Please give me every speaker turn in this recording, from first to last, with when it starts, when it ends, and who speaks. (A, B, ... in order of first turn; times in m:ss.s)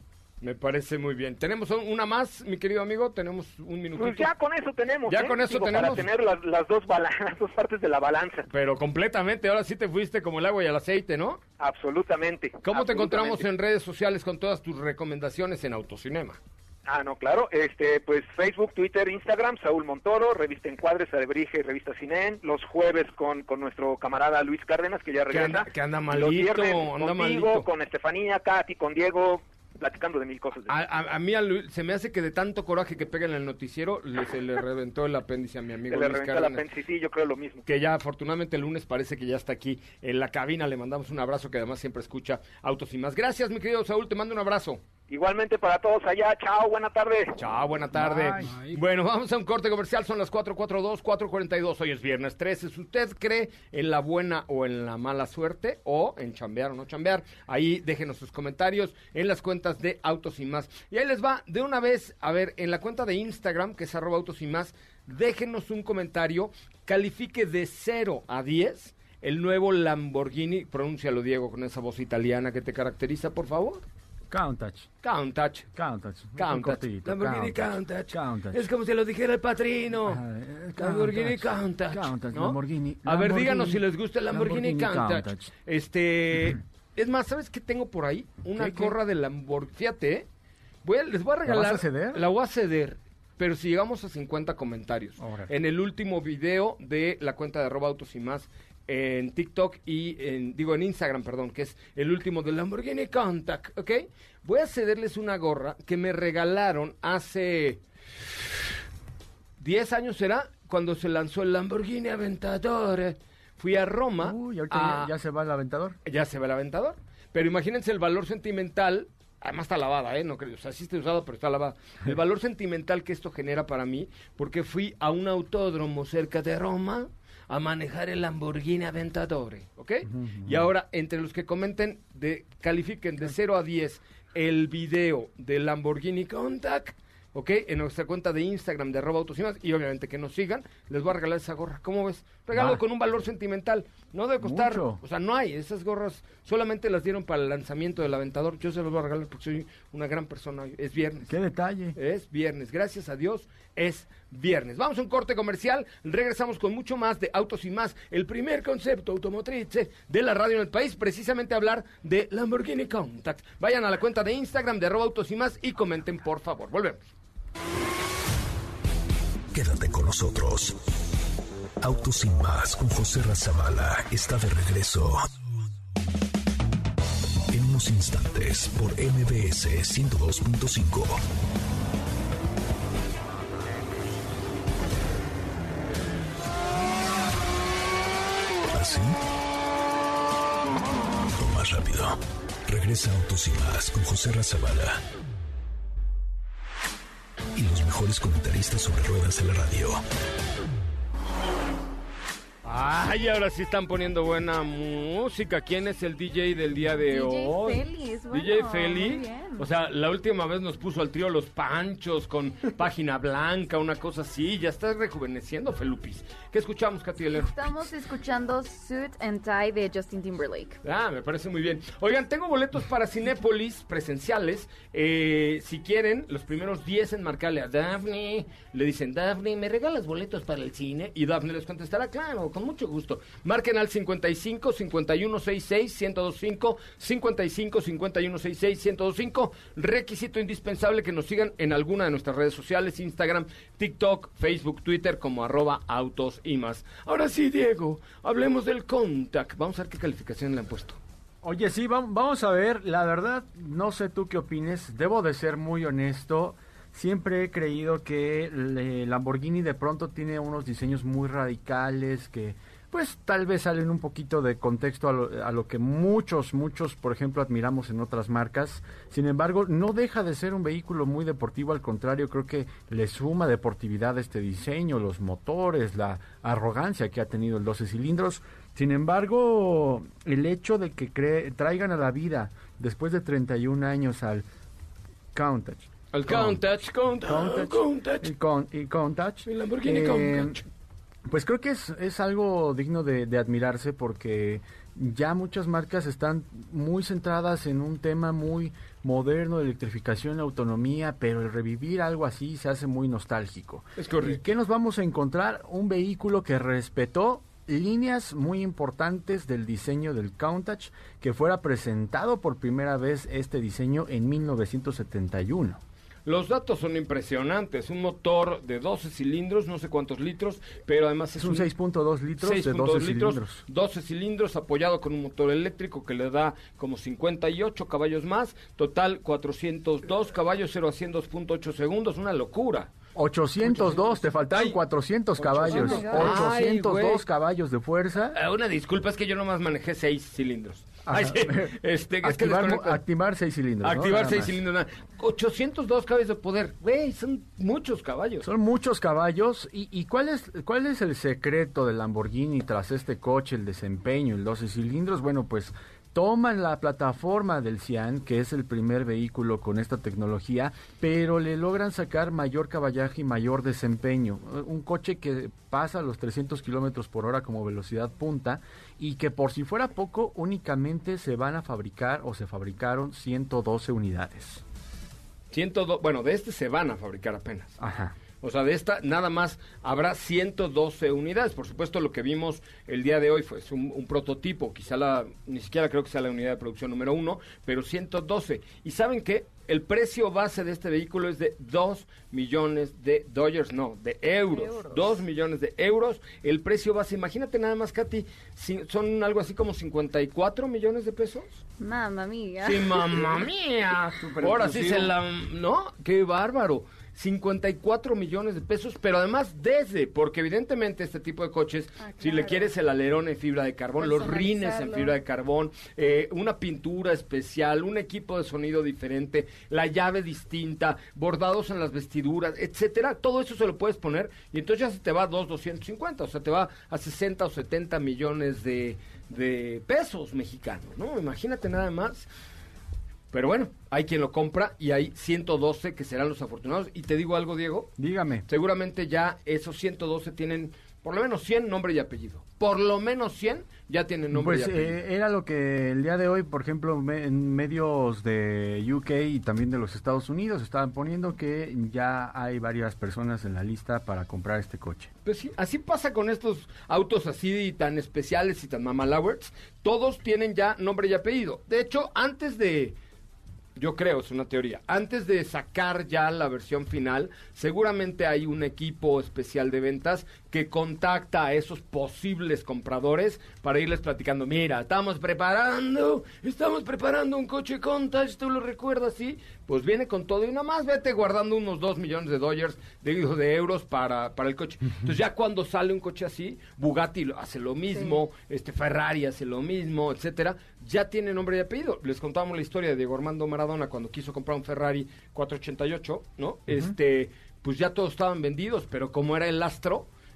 0:00.4-0:04.3 A
0:04.0-0:08.5 B
0:05.1-0:06.1 A
0:08.5-0:11.4 A
0:11.6-0:13.4 B
0:12.6-0:16.4 A
0:16.8-0:30.7 B
0:25.3-0:27.6 A
0:30.7-0:36.6 A
0:35.9-0:37.6 B
0:37.6-0:44.8 A
0:45.1-0:47.4 B
0:47.4-1:13.8 A
0:48.1-0:48.5 C
1:14.3-1:14.9 C
1:15.0-1:15.7 A
1:15.7-1:18.6 C
1:16.4-1:20.2 A
1:20.1-1:25.5 C
1:20.8-1:30.2 A
1:28.6-1:28.9 C
1:30.8-1:47.8 A
1:31.4-1:32.2 C
1:35.2-1:35.5 C
1:49.6-1:55.1 A
1:54.2-1:56.0 C
1:56.0-2:31.3 A
2:10.1-2:10.6 C
2:22.5-2:22.8 C
2:24.4-2:25.0 C
2:31.3-2:32.0 C
2:32.0-2:47.1 A
2:49.5-2:50.8 D
2:51.8-2:55.3 D
2:57.5-3:01.2 D
3:08.7-3:09.1 D
3:11.3-3:15.0 D
3:17.5-3:20.0 D
3:22.6-3:37.9 A
3:27.0-3:29.6 E
3:37.4-3:40.8 E
3:40.8-4:11.0 A
4:11.4-4:44.4 C
4:45.3-4:46.6 C
4:46.1-4:48.3 A
4:47.2-4:50.6 C
4:49.4-4:50.6 A
4:51.2-5:15.8 C
5:04.0-5:04.4 A
5:16.2-5:21.7 A
5:21.4-5:23.6 C
5:22.4-5:32.9 A
5:33.2-5:38.4 C
5:33.6-5:34.8 A
5:35.4-5:37.2 A
5:35.7-5:36.3 E
5:38.3-5:43.0 A
5:41.0-5:44.6 C
5:43.8-5:48.5 A
5:48.4-6:14.6 C
6:15.5-6:17.8 A
6:17.8-6:18.1 C
6:18.4-6:41.6 A
6:34.5-6:35.2 E
6:41.8-6:43.1 E
6:42.6-7:12.2 A
6:44.2-6:45.1 C
6:52.0-6:52.7 E
6:54.0-6:55.1 E
7:13.3-7:17.9 A
7:18.0-7:18.4 C
7:18.5-7:24.9 A
7:24.3-7:35.1 C
7:35.2-7:43.0 A
7:43.8-8:20.1 A